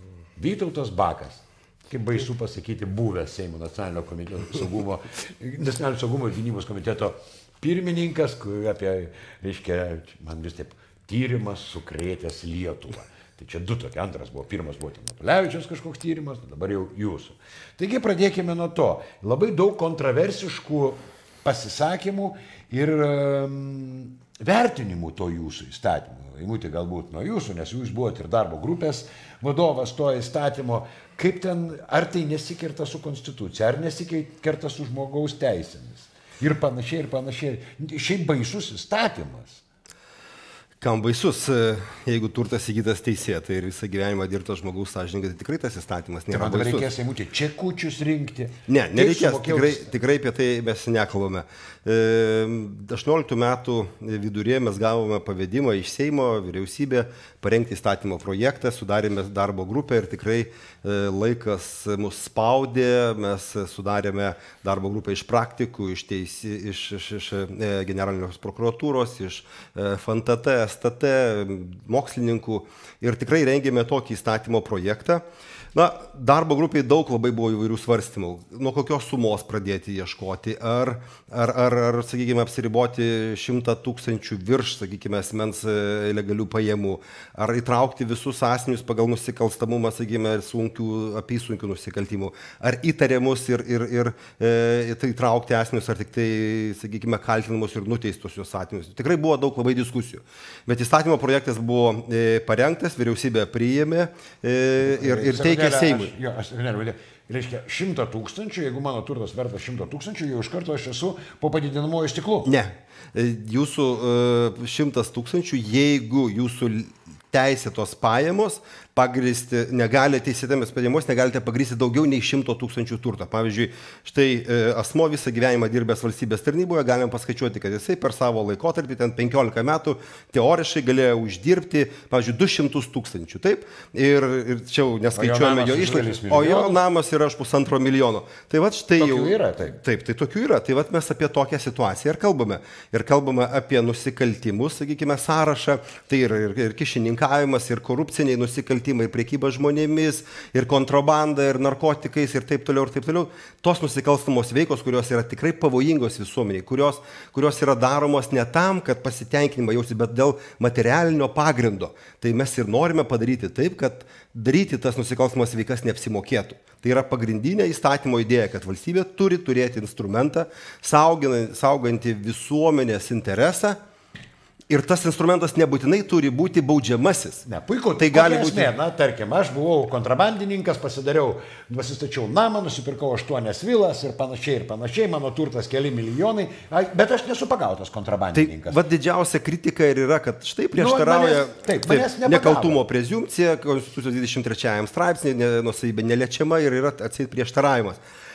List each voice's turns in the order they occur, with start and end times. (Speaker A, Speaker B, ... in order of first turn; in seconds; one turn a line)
Speaker A: 0.4-39.6
Speaker B: 40.8-46.9
Speaker A: 46.3-49.9
Speaker B: 48.7-106.1
Speaker A: 104.8-112.5
Speaker B: 112.5-173.8
Speaker A: 135.2-136.8
Speaker A: 139.0-139.8
Speaker B: 174.7-177.4
Speaker A: 177.5-188.8
Speaker B: 178.0-178.7
Speaker B: 188.3-198.0
Speaker A: 190.8-192.8